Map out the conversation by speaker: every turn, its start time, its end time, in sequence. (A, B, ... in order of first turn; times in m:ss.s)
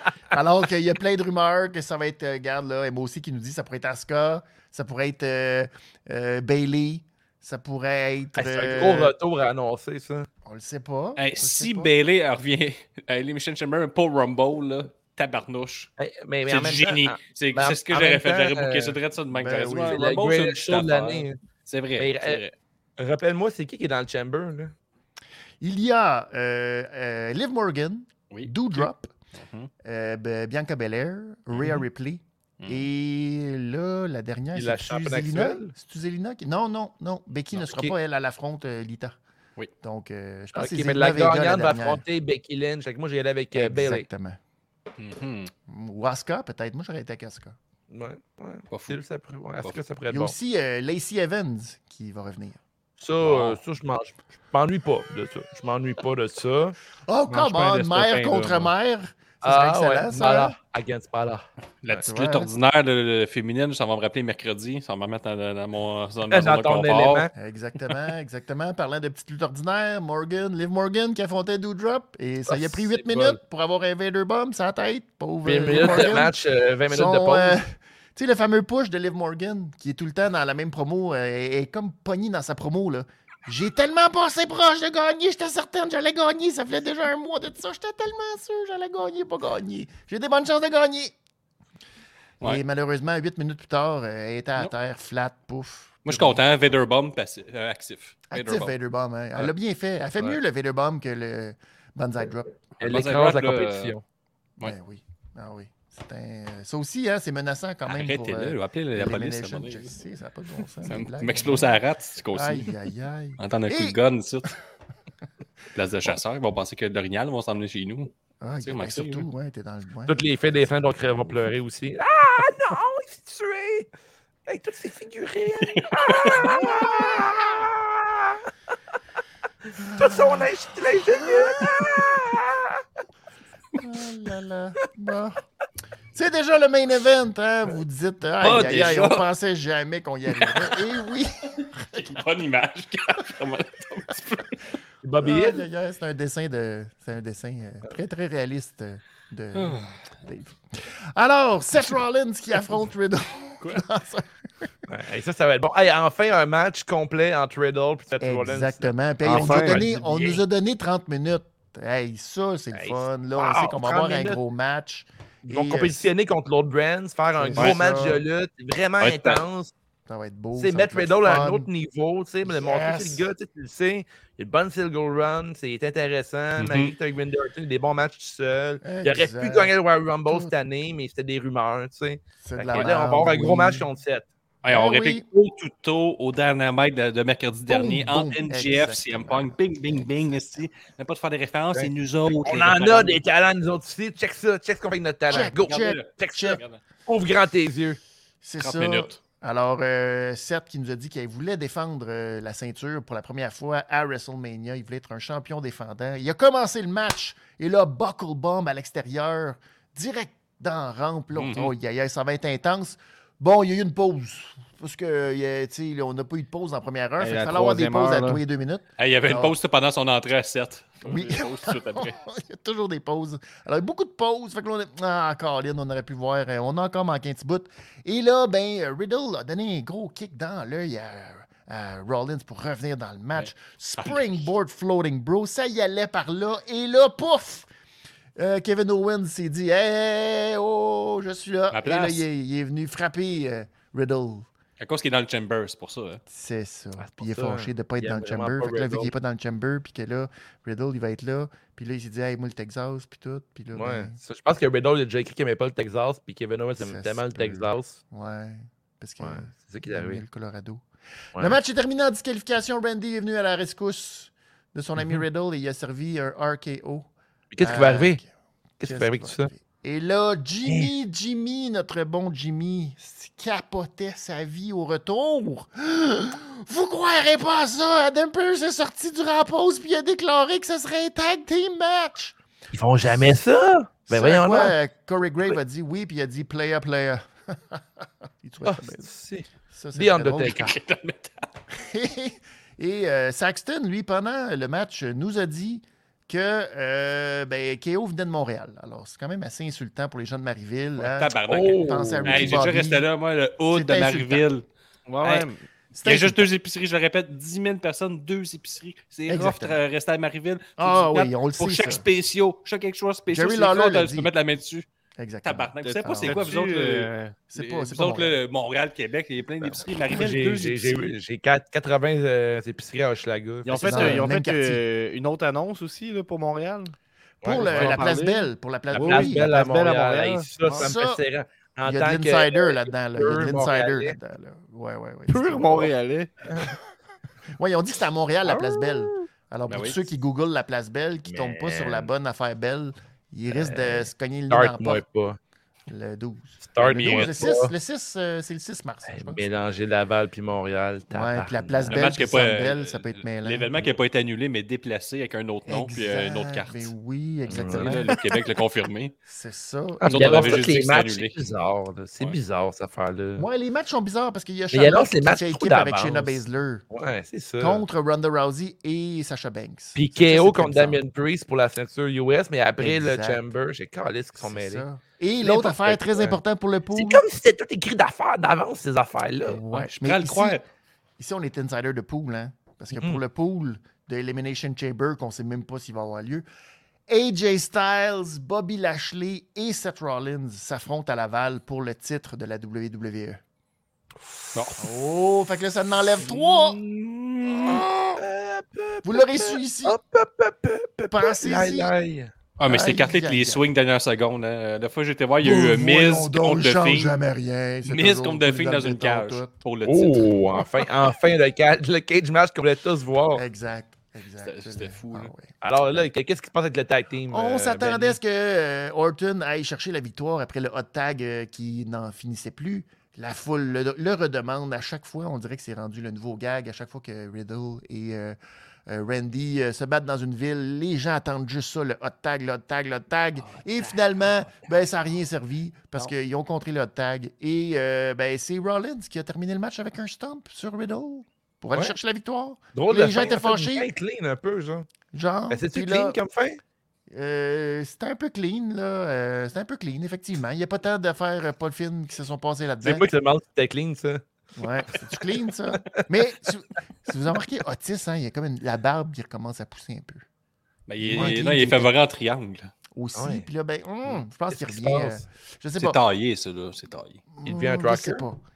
0:00.3-0:09.1 A
0:08.4-0:10.3 B
0:10.4-0:11.9 A
0:11.2-0:15.9 C
0:16.0-0:19.0 B
0:16.5-0:22.5 C
0:19.3-0:20.0 A
0:19.9-0:21.4 B
0:22.0-0:22.4 B
0:23.0-0:24.7 B
0:25.6-0:29.1 A
0:28.3-0:29.7 C
0:29.8-0:39.2 A
0:31.6-0:31.8 C
0:32.6-0:32.9 C
0:34.5-0:35.7 B
0:37.6-0:37.9 B
0:39.8-0:42.0 A
0:40.5-0:44.1 B
0:43.5-0:44.4 A
0:45.0-0:45.5 C
0:45.7-0:47.6 A
0:47.9-0:50.3 B
0:48.7-0:49.0 C
0:50.1-0:52.6 A
0:53.0-0:56.8 B
0:53.2-0:53.6 A
0:57.1-1:00.6 A
0:57.3-0:58.6 D
0:59.4-1:02.0 B
1:01.8-1:07.3 C
1:02.0-1:02.5 A
1:06.3-1:07.3 B
1:07.4-1:16.4 A
1:12.5-1:13.4 B
1:15.4-1:17.6 B
1:16.9-1:31.1 A
1:32.4-1:36.4 A
1:36.0-1:38.7 C
1:38.3-1:42.5 A
1:42.8-1:43.9 C
1:42.8-1:44.0 B
1:44.6-1:51.8 A
1:47.9-1:49.9 C
1:50.8-1:52.8 C
1:52.3-1:54.0 A
1:53.4-1:54.5 C
1:55.8-1:59.3 C
1:58.4-2:00.2 A
2:00.1-2:03.9 B
2:04.5-2:08.4 B
2:05.6-2:06.6 C
2:06.3-2:07.4 A
2:09.7-2:10.5 A
2:09.8-2:12.8 B
2:11.1-2:12.0 A
2:13.8-2:15.4 A
2:16.1-2:22.1 A
2:18.4-2:19.2 C
2:18.4-2:19.2 B
2:20.3-2:20.8 C
2:21.6-2:24.6 C
2:25.0-2:25.7 B
2:25.2-2:34.7 A
2:29.6-2:30.0 C
2:34.9-2:40.4 B
2:38.2-2:46.1 A
2:39.2-2:39.8 D
2:42.7-2:44.4 B
2:45.5-2:49.7 B
2:47.4-2:47.8 D
2:47.5-2:48.2 A
2:49.0-2:49.4 C
2:50.1-2:51.7 A
2:50.6-3:04.3 B
2:52.4-2:53.3 A
2:56.6-2:56.9 C
2:58.8-2:59.7 A
3:00.3-3:00.5 A
3:02.4-3:03.9 A
3:02.7-3:03.0 C
3:04.6-3:13.2 C
3:04.7-3:05.2 A
3:07.7-3:10.6 A
3:12.4-3:18.0 B
3:15.3-3:16.6 A
3:15.3-3:16.8 C
3:18.4-3:39.6 A
3:18.6-3:19.2 C
3:31.3-3:31.7 C
3:37.2-3:38.4 D
3:39.0-3:42.2 C
3:41.1-3:57.7 A
3:53.4-3:54.3 C
3:58.4-4:04.5 A
4:01.7-4:02.3 C
4:04.8-4:06.2 C
4:06.3-4:14.2 A
4:07.0-4:09.1 B
4:13.8-4:18.0 B
4:16.8-4:20.8 A
4:19.2-4:20.2 B
4:21.4-4:27.1 A
4:27.5-4:28.2 B
4:27.6-4:28.3 A
4:28.8-4:29.5 B
4:28.8-4:42.4 A
4:42.7-4:44.8 B
4:44.1-4:49.1 A
4:48.6-4:50.8 B
4:49.7-4:50.8 A
4:50.4-4:51.5 C
4:51.7-5:03.1 A
5:01.0-5:04.7 C
5:01.5-5:02.6 B
5:03.7-5:04.4 A
5:05.1-5:05.6 D
5:05.2-5:14.9 C
5:06.0-5:06.5 A
5:09.3-5:09.8 A
5:10.8-5:12.0 A
5:13.3-5:14.3 A
5:15.2-5:16.6 A
5:15.4-5:21.1 C
5:15.8-5:17.4 D
5:17.5-5:18.4 A
5:19.7-5:20.3 A
5:20.1-5:24.3 B
5:23.6-5:26.9 D
5:23.8-5:24.8 A
5:27.4-5:28.0 B
5:27.4-5:29.5 A
5:27.5-5:30.9 D
5:28.9-5:34.2 B
5:30.7-5:31.2 A
5:31.8-5:35.9 A
5:35.3-5:36.3 D
5:37.6-5:45.0 A
5:38.5-5:39.2 D
5:39.7-5:40.0 C
5:41.3-5:42.1 B
5:43.5-5:45.4 B
5:45.9-5:49.5 A
5:46.7-5:47.7 B
5:49.1-5:52.0 B
5:51.1-5:53.7 A
5:51.9-5:56.9 C
5:55.7-5:58.2 A
5:57.5-5:58.2 B
5:57.6-5:59.1 C
5:59.3-6:00.7 A
6:00.0-6:03.5 B
6:00.0-6:01.4 C
6:03.4-6:06.8 A
6:04.7-6:06.4 B
6:06.9-6:07.8 B
6:07.6-6:11.0 A
6:10.0-6:14.8 B
6:12.8-6:13.4 A
6:14.4-6:17.2 A
6:15.4-6:16.4 B
6:17.0-6:19.6 B
6:19.5-6:20.6 A
6:19.7-6:20.6 C
6:21.2-6:26.4 A
6:23.0-6:23.2 B
6:27.1-6:33.4 A
6:34.6-6:34.8 C
6:34.8-6:36.8 A
6:36.2-6:42.3 B
6:37.4-6:38.2 A
6:39.0-6:40.0 A
6:41.1-6:41.9 A
6:42.6-6:47.2 C
6:42.7-6:43.6 A
6:45.4-6:49.5 A
6:47.9-6:50.3 C
6:49.9-6:53.4 B
6:53.3-6:55.5 A
6:54.4-6:55.3 C
6:55.6-6:58.2 B
6:57.3-7:23.9 A
7:22.8-7:24.9 B
7:25.1-7:26.2 A
7:25.5-7:26.6 B
7:27.1-7:33.1 A
7:32.8-7:34.2 B
7:34.6-7:40.2 A
7:40.9-7:42.7 C
7:41.0-7:41.9 A
7:43.0-7:46.0 A
7:43.2-7:43.4 B
7:44.5-7:45.2 B
7:45.8-7:47.2 C
7:47.3-7:48.4 A
7:47.4-7:48.2 B